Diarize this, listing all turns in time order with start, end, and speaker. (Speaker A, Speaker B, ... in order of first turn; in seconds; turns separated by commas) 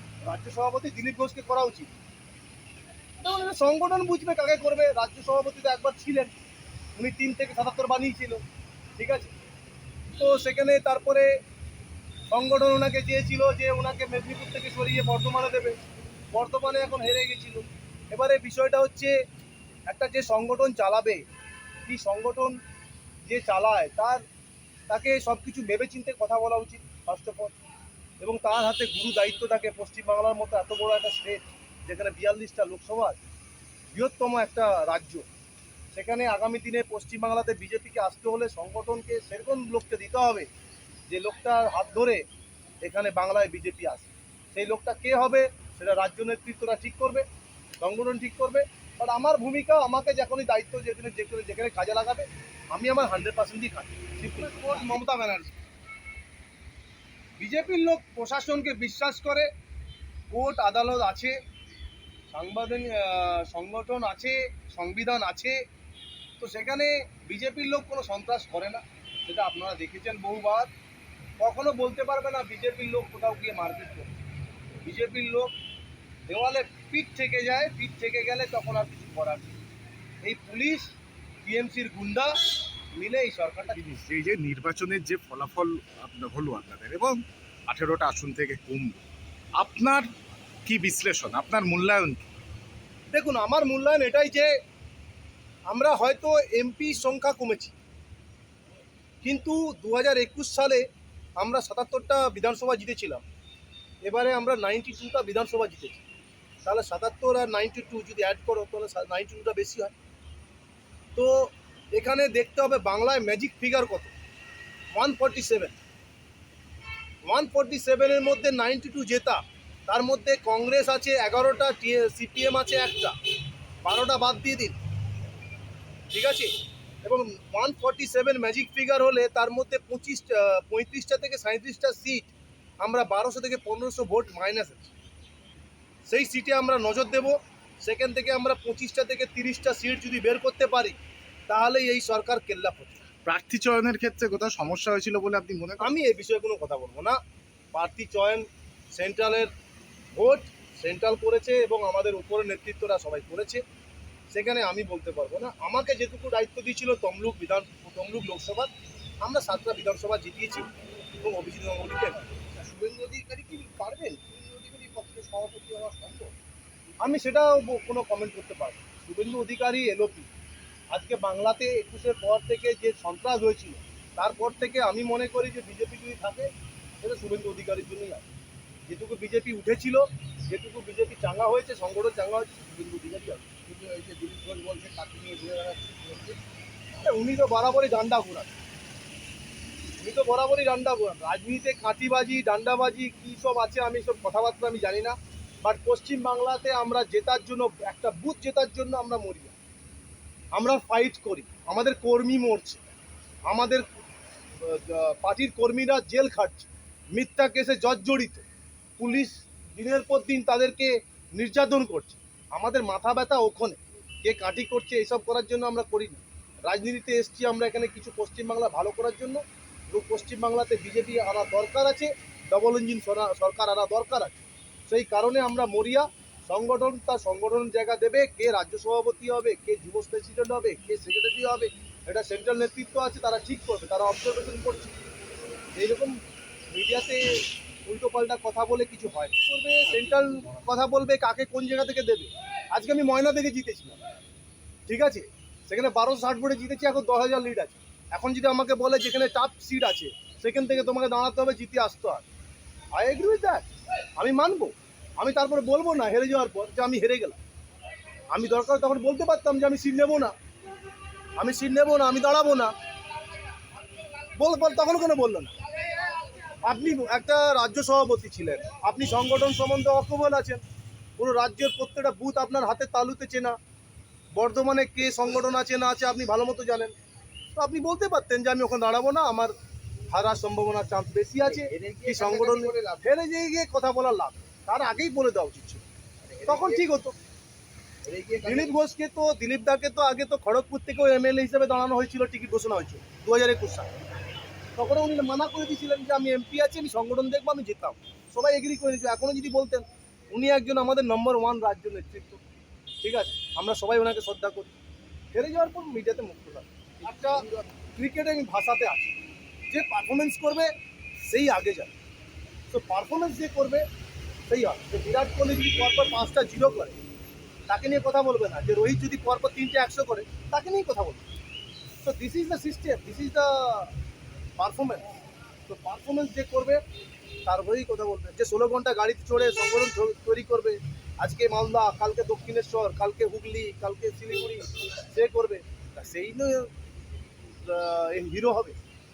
Speaker A: 0.2-1.9, Speaker A: 3.2-6.3, Speaker A: 7.0-8.4, Speaker A: 9.0-9.3, Speaker A: 10.2-11.3, Speaker A: 12.3-15.8, Speaker A: 16.3-19.1, Speaker A: 19.9-21.2, Speaker A: 21.9-22.6, Speaker A: 23.3-24.2, Speaker A: 24.9-27.6, Speaker A: 28.2-33.2, Speaker A: 33.9-35.3, Speaker A: 35.9-40.5, Speaker A: 41.1-42.2, Speaker A: 42.8-47.3, Speaker A: 47.8-55.6, Speaker A: 57.4-59.5, Speaker A: 60.3-61.4, Speaker A: 62.3-65.6, Speaker A: 66.4-70.7, Speaker A: 71.4-74.2, Speaker A: 74.8-75.5, Speaker A: 76.3-79.6, Speaker A: 80.2-80.9, Speaker A: 81.5-82.3, Speaker A: 82.9-83.8, Speaker B: 83.8-89.0, Speaker B: 89.6-90.1, Speaker B: 90.7-92.2, Speaker A: 93.1-94.5, Speaker A: 95.7-97.7, Speaker A: 99.2-100.8, Speaker A: 101.4-103.2, Speaker A: 104.0-106.0, Speaker A: 106.6-109.9, Speaker A: 111.2-114.1, Speaker A: 114.9-115.8, Speaker A: 117.3-123.2, Speaker A: 123.8-124.8, Speaker A: 126.1-126.5, Speaker A: 127.0-134.9, Speaker A: 136.1-141.0, Speaker A: 141.5-143.0, Speaker B: 143.2-145.9, Speaker A: 145.8-147.2, Speaker A: 147.7-149.5, Speaker A: 150.2-153.6, Speaker A: 154.3-158.7, Speaker A: 159.2-160.7, Speaker A: 161.2-162.2, Speaker C: 162.6-166.3, Speaker A: 167.0-170.3, Speaker A: 170.9-176.5, Speaker A: 177.0-178.2, Speaker A: 178.9-183.5, Speaker C: 183.7-186.4, Speaker A: 187.0-188.5, Speaker A: 190.0-199.6, Speaker A: 200.5-202.8, Speaker A: 203.5-203.9, Speaker A: 204.6-208.4, Speaker A: 209.0-234.9, Speaker A: 235.8-236.2, Speaker A: 236.7-237.2, Speaker A: 237.8-244.0, Speaker A: 244.9-252.2, Speaker A: 252.9-253.7, Speaker A: 254.2-257.4, Speaker A: 258.3-260.3, Speaker A: 261.4-262.7, Speaker A: 264.4-270.6, Speaker A: 271.2-273.6, Speaker A: 274.4-276.9, Speaker A: 277.6-279.5, Speaker A: 280.1-285.8, Speaker C: 281.4-283.0, Speaker C: 286.3-286.9, Speaker A: 286.5-287.1, Speaker C: 288.1-288.8, Speaker A: 288.4-293.9, Speaker A: 294.8-302.4, Speaker A: 303.0-304.7, Speaker A: 305.3-307.4, Speaker A: 308.0-309.2, Speaker A: 309.7-310.7, Speaker A: 311.2-311.9, Speaker A: 312.7-313.8, Speaker A: 314.5-317.0, Speaker A: 317.7-321.2, Speaker A: 322.0-323.9, Speaker A: 324.6-325.1, Speaker A: 325.7-326.8, Speaker A: 327.5-336.7, Speaker A: 337.6-338.8